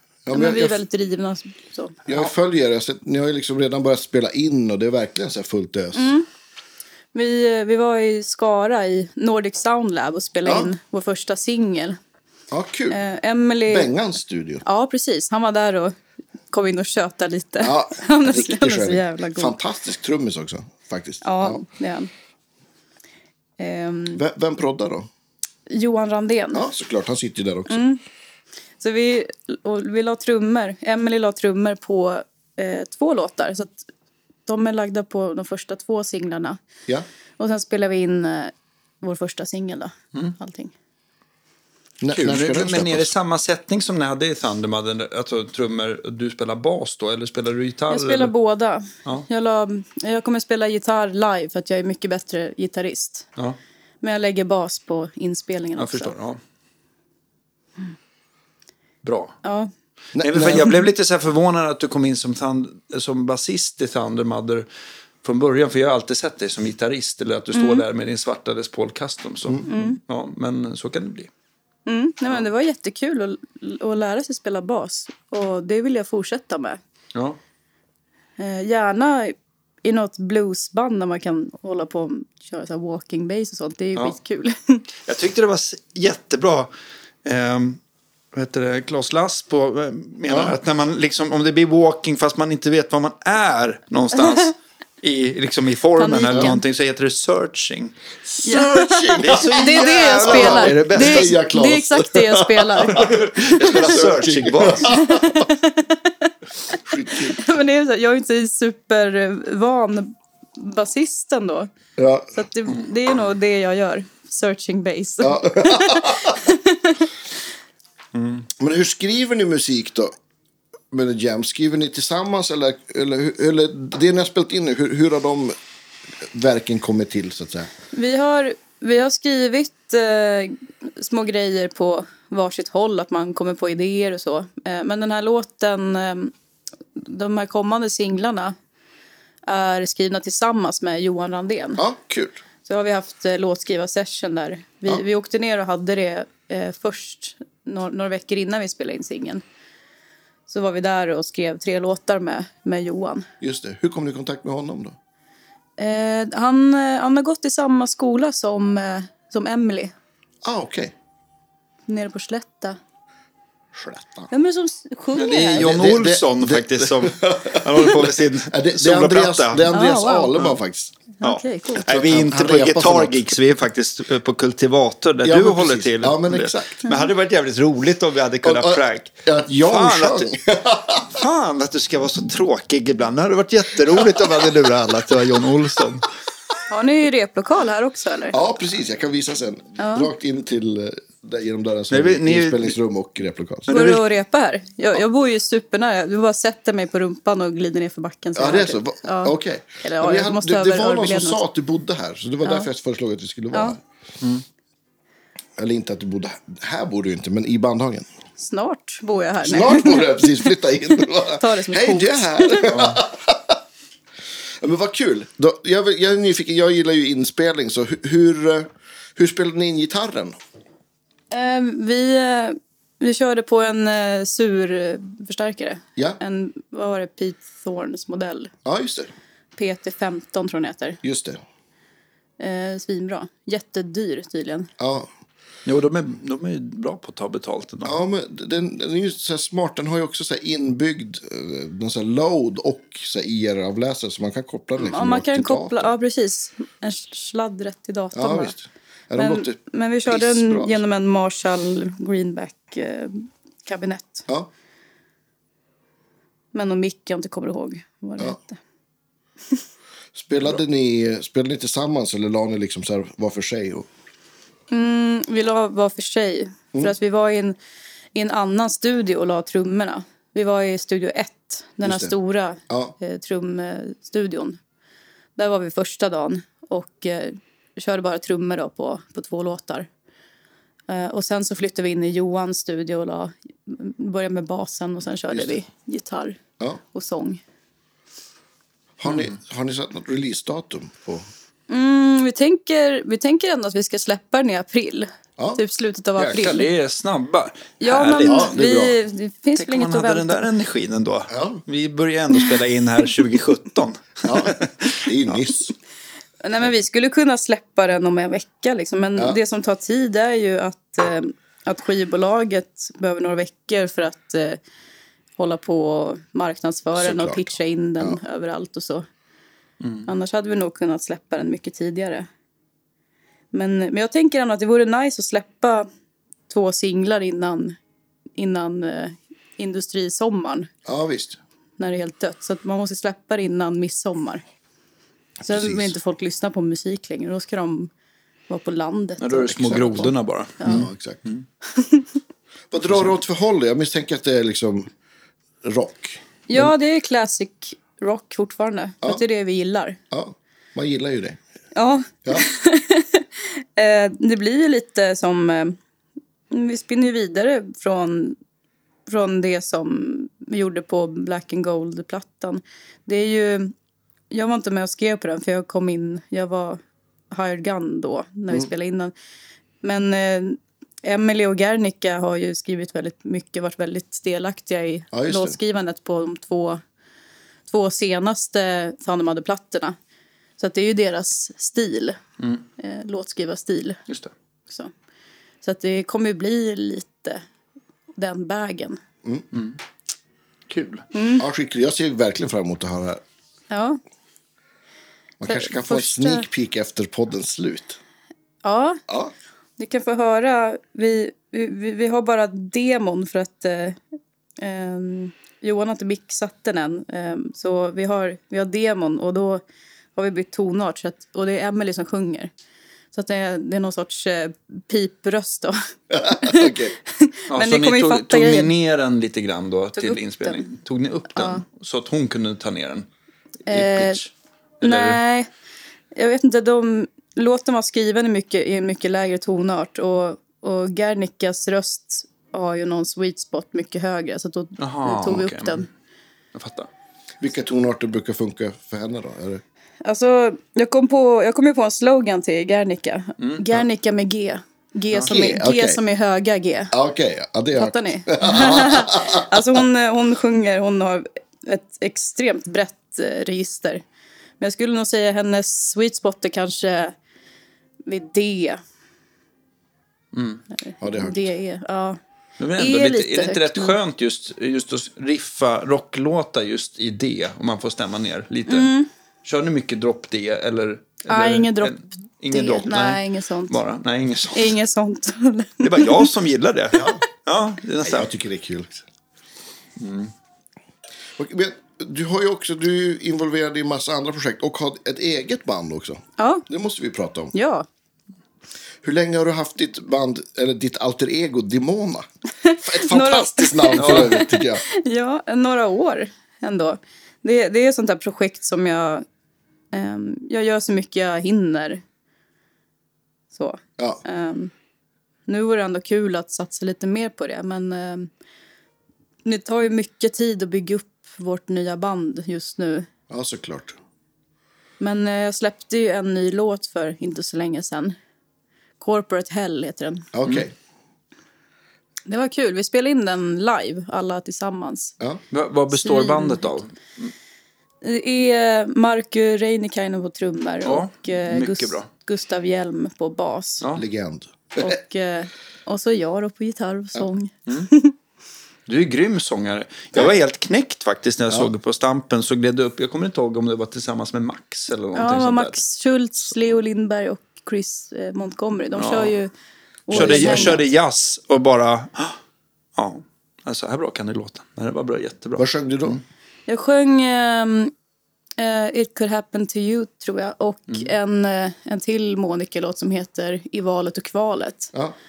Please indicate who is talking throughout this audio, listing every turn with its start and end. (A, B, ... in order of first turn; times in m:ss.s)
0:00.2-0:00.8 A
0:00.3-0:02.3 B
0:02.1-0:06.2 A
0:05.9-0:06.3 B
0:07.1-0:12.0 B
0:10.4-0:10.7 A
0:12.5-0:13.0 A
0:12.9-0:13.9 B
0:13.7-0:14.6 A
0:14.6-0:16.0 B
0:16.5-0:19.6 B
0:17.6-0:21.6 A
0:21.2-0:22.1 B
0:23.6-0:24.2 B
0:24.1-0:25.1 A
0:25.7-0:26.7 B
0:26.5-0:27.8 A
0:27.7-0:28.0 B
0:28.8-0:33.9 B
0:34.5-0:36.6 B
0:37.4-0:40.7 B
0:42.0-0:43.1 A
0:42.1-0:48.3 C
0:47.9-0:53.3 B
0:54.0-0:56.1 B
0:55.8-0:56.4 C
0:59.0-0:59.4 C
0:59.4-0:59.7 B
1:00.2-1:00.8 A
1:00.2-1:04.7 C
1:05.2-1:11.3 C
1:07.5-1:07.8 B
1:09.7-1:10.0 B
1:11.9-1:16.8 B
1:18.4-1:24.8 B
1:25.0-1:26.7 C
1:27.2-1:27.8 C
1:28.3-1:38.0 C
1:30.3-1:30.6 A
1:36.0-1:36.6 B
1:38.3-1:45.5 A
1:38.4-1:43.1 B
1:39.2-1:41.4 C
1:42.9-1:45.0 C
1:44.8-1:46.3 B
1:46.7-1:47.4 A
1:47.1-1:51.7 B
1:52.0-1:52.3 A
1:52.3-1:57.1 B
1:55.2-1:56.4 A
1:58.2-1:58.5 C
1:58.6-2:00.1 A
2:00.9-2:05.6 A
2:06.2-2:07.7 A
2:07.9-2:16.3 B
2:17.0-2:18.6 B
2:19.4-2:21.8 B
2:21.8-2:22.4 A
2:22.6-2:29.4 B
2:30.5-2:33.3 B
2:33.4-2:35.0 A
2:35.8-2:39.9 B
2:40.4-2:40.9 A
2:41.9-2:42.8 B
2:43.7-2:44.3 A
2:44.3-2:45.6 B
2:45.2-2:49.7 C
2:45.6-2:50.9 A
2:49.7-2:50.4 B
2:51.2-2:51.9 B
2:51.2-3:00.3 C
2:51.8-2:53.3 A
2:55.2-2:56.8 A
2:58.4-3:01.2 A
3:01.1-3:06.1 C
3:03.9-3:04.7 A
3:06.7-3:08.4 B
3:08.3-3:13.7 A
3:09.8-3:10.1 B
3:11.9-3:12.8 C
3:13.7-3:14.0 C
3:13.7-3:21.4 B
3:18.4-3:23.8 A
3:23.5-3:23.8 B
3:25.6-3:28.1 A
3:28.4-3:30.5 B
3:29.4-3:33.6 A
3:31.2-3:32.8 B
3:32.7-3:33.0 C
3:34.6-3:40.4 A
3:41.3-3:48.5 B
3:48.6-3:49.1 A
3:49.6-3:51.0 B
3:51.0-3:51.4 A
3:52.4-3:54.7 B
3:54.8-3:55.1 A
3:55.6-3:58.0 C
3:57.8-4:05.9 A
4:04.8-4:08.6 B
4:08.1-4:10.8 A
4:09.2-4:14.3 B
4:16.5-4:18.6 B
4:20.2-4:23.9 A
4:24.7-4:27.6 B
4:28.2-4:34.6 B
4:31.8-4:32.1 A
4:32.7-4:33.0 A
4:35.4-4:39.9 B
4:40.9-4:46.4 B
4:45.3-4:45.6 A
4:46.9-4:47.4 B
4:49.0-4:51.3 A
4:51.7-4:56.7 B
4:56.2-4:58.5 C
4:57.8-5:00.5 B
4:58.2-4:59.0 A
4:59.6-5:05.1 C
5:01.3-5:01.6 A
5:04.2-5:05.7 A
5:06.4-5:14.6 B
5:15.4-5:19.1 B
5:17.0-5:18.2 A
5:19.8-5:20.1 C
5:20.1-5:22.3 B
5:23.5-5:25.9 B
5:26.5-5:27.8 B
5:28.4-5:30.7 B
5:30.8-5:31.4 A
5:31.8-5:34.4 B
5:35.4-5:37.9 B
5:35.5-5:35.9 A
5:38.5-5:39.5 B
5:39.2-5:41.5 C
5:39.3-5:40.1 A
5:40.6-5:40.8 B
5:40.6-5:41.2 A
5:41.7-5:42.1 B
5:42.7-5:44.9 A
5:45.6-5:46.7 A
5:46.5-5:50.0 B
5:50.1-5:51.4 A
5:51.8-5:55.8 B
5:56.5-5:58.4 B
5:59.1-6:03.7 B
6:04.3-6:06.8 B
6:07.3-6:09.1 B
6:09.8-6:16.8 B
6:15.1-6:15.6 A
6:17.7-6:20.0 B
6:20.6-6:22.2 B
6:22.8-6:24.0 B
6:25.6-6:27.4 B
6:28.2-6:29.0 B
6:29.5-6:29.8 C
6:30.7-6:31.0 C
6:31.1-6:31.4 B
6:31.4-6:33.2 A
6:33.7-6:34.0 B
6:35.4-6:38.0 A
6:35.4-6:36.5 B
6:38.6-6:39.0 B
6:39.1-6:39.3 A
6:39.8-6:44.0 B
6:44.6-6:49.6 B
6:50.2-6:52.5 B
6:53.1-6:55.8 B
6:56.1-6:57.0 A
6:56.3-6:58.7 B
6:57.5-7:03.1 C
7:00.0-7:00.7 B
7:01.4-7:01.6 B
7:03.7-7:04.2 B
7:03.7-7:04.3 C
7:04.8-7:05.2 C
7:04.8-7:05.5 B
7:06.1-7:15.9 B
7:14.8-7:15.8 C
7:16.5-7:16.9 C
7:17.4-7:19.6 A
7:20.0-7:26.9 B
7:23.4-7:23.6 C
7:25.2-7:26.0 A
7:26.9-7:29.8 A
7:27.8-7:34.0 B
7:34.6-7:37.2 B
7:38.1-7:38.8 B
7:40.3-7:40.6 C
7:40.8-7:42.2 B
7:41.0-7:41.4 A
7:42.6-7:48.9 C
7:42.8-7:44.0 B
7:48.7-7:49.1 B
7:49.4-7:54.8 C
7:51.3-7:51.9 B
7:52.5-7:53.8 B
7:54.5-7:56.3 B
7:55.8-7:58.3 C
7:56.9-7:57.2 A
7:58.0-7:59.0 A
8:00.0-8:00.3 C
8:01.4-8:07.5 A
8:06.4-8:06.6 B
8:07.5-8:07.9 B
8:09.0-8:12.3 A
8:12.6-8:19.2 B
8:12.8-8:14.8 A
8:14.0-8:14.4 C
8:19.9-8:22.0 B
8:23.5-8:24.7 B
8:25.5-8:28.3 B
8:29.4-8:33.1 B
8:33.3-8:34.0 A
8:35.0-8:38.2 B
8:39.0-8:40.3 B
8:40.3-8:40.7 A
8:42.3-8:45.2 B
8:45.5-8:47.3 C
8:45.9-8:46.7 B
8:48.0-8:53.8 B
8:50.8-8:52.1 C
8:54.0-8:55.0 A
8:54.8-8:58.1 B
8:58.9-9:05.8 C
9:05.2-9:09.5 B
9:09.0-9:09.4 C
9:10.1-9:10.9 B
9:10.1-9:10.8 A
9:10.1-9:12.4 C
9:13.0-9:16.2 C
9:15.6-9:16.2 A
9:16.7-9:17.9 B
9:18.6-9:24.9 B